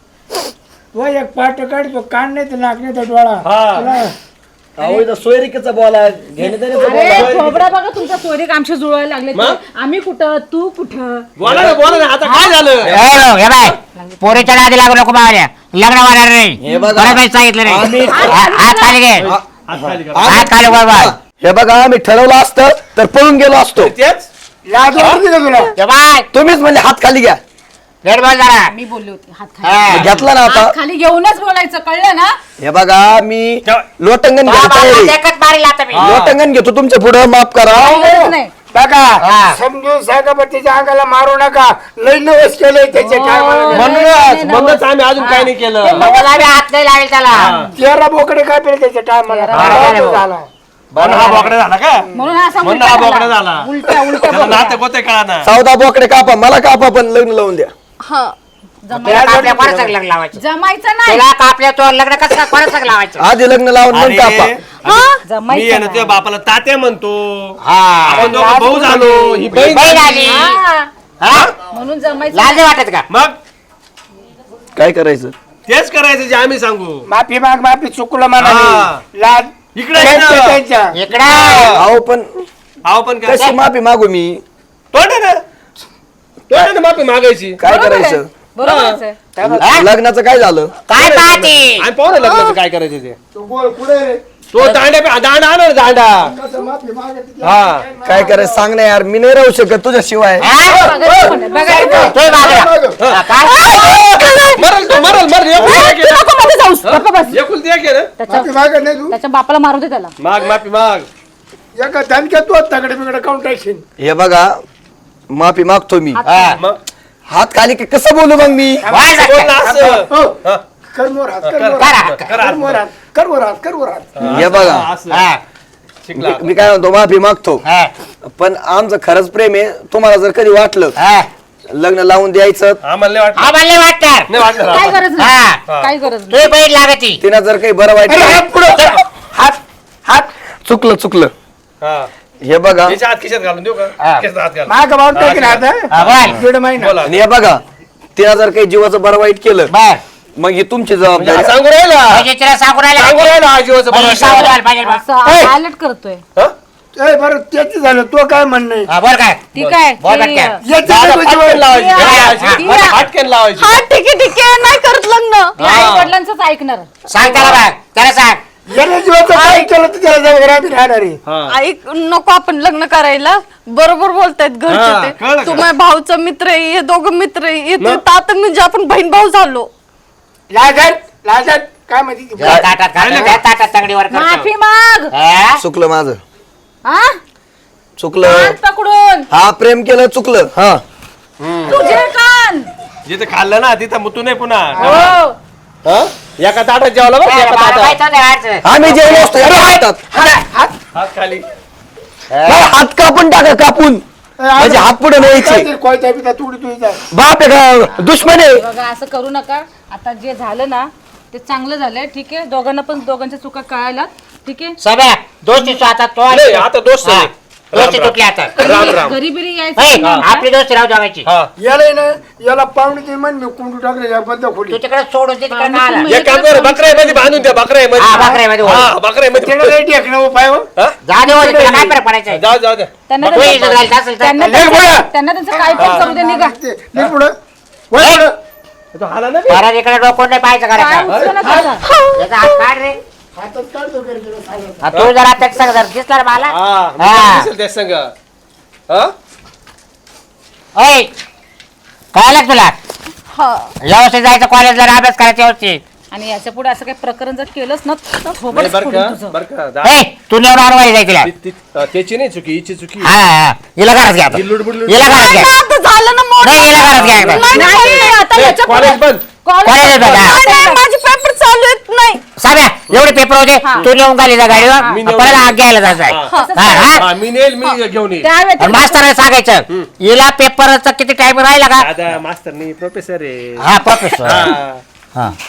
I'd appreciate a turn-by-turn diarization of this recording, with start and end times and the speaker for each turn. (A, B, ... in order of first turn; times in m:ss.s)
0:00.9-0:04.1 A
0:03.4-0:03.9 B
0:04.8-0:07.4 C
0:06.4-0:12.7 D
0:07.0-0:07.6 B
0:11.4-0:13.0 B
0:11.4-0:11.7 C
0:12.8-0:19.3 E
0:13.6-0:14.6 D
0:16.6-0:18.3 C
0:16.6-0:16.9 D
0:18.0-0:19.2 D
0:19.2-0:20.5 B
0:19.2-0:23.9 C
0:20.2-0:21.1 E
0:23.8-0:24.3 B
0:24.6-0:25.7 A
0:25.0-0:25.2 B
0:25.8-0:26.3 E
0:26.3-0:27.4 C
0:28.0-0:28.7 E
0:28.6-0:32.4 D
0:29.6-0:30.0 E
0:29.9-0:30.8 C
0:29.9-0:30.3 B
0:32.6-0:35.2 C
0:34.4-0:36.3 E
0:35.9-0:36.4 B
0:36.0-0:38.1 C
0:37.7-0:38.5 D
0:38.0-0:43.9 A
0:39.2-0:39.6 E
0:43.0-0:46.6 D
0:43.7-0:46.1 B
0:45.9-0:47.5 E
0:47.3-0:47.7 B
0:47.7-0:51.4 A
0:49.3-0:50.0 D
0:49.5-0:50.0 B
0:49.6-0:50.2 E
0:51.0-0:52.0 B
0:52.1-0:54.8 D
0:52.6-0:53.6 B
0:54.3-0:55.5 B
0:55.4-0:57.7 C
0:58.0-0:58.3 F
0:58.8-0:59.4 D
0:59.0-0:59.9 A
0:59.0-1:00.4 E
1:00.3-1:01.3 D
1:01.0-1:03.3 E
1:03.2-1:04.5 C
1:03.9-1:10.4 B
1:04.8-1:05.2 F
1:05.2-1:06.2 D
1:07.6-1:09.0 E
1:08.1-1:08.7 F
1:08.4-1:09.8 A
1:09.5-1:10.6 E
1:10.2-1:10.9 D
1:11.2-1:11.5 E
1:11.7-1:12.7 D
1:12.3-1:13.0 E
1:13.1-1:13.4 B
1:14.8-1:15.3 C
1:15.7-1:17.0 B
1:17.1-1:21.0 A
1:18.4-1:19.0 B
1:19.7-1:20.6 B
1:20.9-1:21.8 E
1:21.2-1:21.8 B
1:21.7-1:22.5 C
1:22.8-1:23.5 B
1:23.2-1:24.4 C
1:24.9-1:25.4 B
1:26.5-1:27.6 B
1:27.6-1:28.3 C
1:27.6-1:29.2 D
1:28.6-1:28.9 B
1:29.4-1:29.7 A
1:29.4-1:30.8 C
1:29.6-1:29.9 E
1:30.9-1:31.8 E
1:30.9-1:33.2 B
1:32.2-1:32.5 F
1:33.3-1:34.2 A
1:34.5-1:36.3 B
1:36.2-1:38.6 A
1:37.4-1:37.8 B
1:38.0-1:40.5 C
1:40.4-1:40.9 E
1:40.6-1:42.1 D
1:40.9-1:43.0 A
1:41.8-1:43.6 E
1:43.0-1:46.2 B
1:43.5-1:47.4 D
1:44.2-1:44.5 F
1:46.8-1:48.1 B
1:48.2-1:48.5 D
1:48.3-1:49.1 A
1:49.0-1:50.1 D
1:50.2-1:51.1 B
1:51.8-1:53.8 A
1:54.0-1:54.6 C
1:55.3-1:56.2 C
1:56.1-1:56.6 D
1:56.2-1:56.6 E
1:57.3-1:58.8 C
1:58.8-2:00.4 A
1:58.9-1:59.6 E
1:59.2-2:00.6 B
2:00.9-2:04.4 A
2:01.4-2:02.8 B
2:01.8-2:02.3 E
2:04.2-2:05.2 B
2:04.4-2:04.9 C
2:05.1-2:05.4 E
2:06.1-2:06.6 B
2:06.1-2:07.6 C
2:07.6-2:07.9 E
2:08.3-2:11.0 C
2:11.0-2:11.3 E
2:11.7-2:12.8 C
2:12.8-2:13.5 B
2:13.4-2:14.3 E
2:14.3-2:15.0 B
2:14.4-2:16.5 D
2:15.2-2:15.6 E
2:16.3-2:17.2 E
2:17.2-2:18.4 C
2:18.1-2:20.3 A
2:18.3-2:19.0 E
2:20.6-2:21.3 C
2:21.8-2:22.1 B
2:22.4-2:23.0 C
2:22.8-2:26.2 B
2:24.0-2:24.2 E
2:24.7-2:27.1 A
2:25.9-2:26.4 E
2:26.8-2:27.2 B
2:27.0-2:27.6 C
2:28.2-2:29.7 C
2:29.7-2:30.0 E
2:30.4-2:31.6 C
2:31.1-2:32.3 B
2:32.1-2:33.3 E
2:33.0-2:34.6 B
2:33.9-2:35.0 E
2:34.8-2:36.2 D
2:35.2-2:35.5 B
2:37.0-2:38.9 A
2:38.9-2:39.4 E
2:39.5-2:40.6 D
2:40.0-2:40.5 E
2:40.6-2:41.8 A
2:40.8-2:43.8 B
2:41.6-2:43.0 D
2:42.0-2:42.9 E
2:43.6-2:46.0 F
2:45.6-2:46.1 B
2:45.6-2:46.9 D
2:47.1-2:48.4 E
2:48.7-2:51.2 A
2:48.7-2:49.7 F
2:51.2-2:51.5 B
2:51.5-2:59.7 F
2:54.7-2:55.7 B
3:00.5-3:02.7 A
3:02.4-3:04.4 E
3:03.0-3:03.5 B
3:04.1-3:05.1 D
3:05.1-3:05.6 E
3:05.6-3:06.2 C
3:06.8-3:07.2 D
3:08.0-3:08.6 C
3:08.2-3:09.2 D
3:09.3-3:10.8 C
3:11.4-3:11.9 B
3:11.7-3:12.7 D
3:13.0-3:15.1 B
3:14.8-3:15.1 A
3:14.8-3:15.4 D
3:15.8-3:18.0 B
3:17.2-3:20.4 E
3:18.6-3:20.1 C
3:18.9-3:19.4 D
3:20.1-3:20.8 A
3:20.9-3:21.4 B
3:22.3-3:22.7 E
3:22.4-3:24.0 C
3:24.4-3:27.0 A
3:24.6-3:25.7 C
3:27.1-3:28.6 C
3:28.4-3:34.8 D
3:34.8-3:38.6 E
3:36.3-3:39.2 B
3:38.6-3:40.5 D
3:39.8-3:41.3 E
3:40.0-3:40.2 B
3:41.2-3:41.5 B
3:41.6-3:44.8 A
3:44.7-3:46.1 E
3:45.5-3:47.5 D
3:46.0-3:49.8 B
3:48.0-3:48.9 E
3:49.3-3:50.7 A
3:51.0-3:52.4 E
3:51.2-3:51.9 A
3:52.3-3:53.8 B
3:53.1-3:56.5 D
3:53.2-3:54.8 E
3:54.4-3:57.3 A
3:55.8-3:56.1 B
3:57.9-3:58.3 B
3:58.0-3:58.3 E
3:58.9-3:59.6 B
3:59.5-4:01.1 E
4:00.7-4:01.8 D
4:01.1-4:01.4 B
4:01.4-4:01.7 A
4:02.2-4:03.0 E
4:03.3-4:04.8 A
4:04.8-4:07.5 E
4:06.4-4:08.1 B
4:10.8-4:11.1 E
4:12.1-4:12.7 E
4:13.3-4:13.7 F
4:13.8-4:15.8 E
4:16.1-4:19.3 D
4:18.5-4:20.0 B
4:19.8-4:21.3 E
4:21.2-4:23.2 B
4:23.0-4:25.5 E
4:24.3-4:25.2 B
4:25.0-4:28.2 F
4:26.4-4:27.5 E
4:26.9-4:29.2 B
4:27.5-4:30.8 D
4:29.6-4:30.4 E
4:30.1-4:32.2 F
4:32.4-4:37.0 E
4:33.6-4:33.9 D
4:34.8-4:36.3 B
4:36.3-4:36.5 F
4:36.3-4:37.1 D
4:36.9-4:38.3 B
4:37.6-4:39.0 D
4:38.6-4:41.9 E
4:41.8-4:43.6 B
4:43.6-4:44.5 E
4:44.1-4:44.3 F
4:44.2-4:44.8 B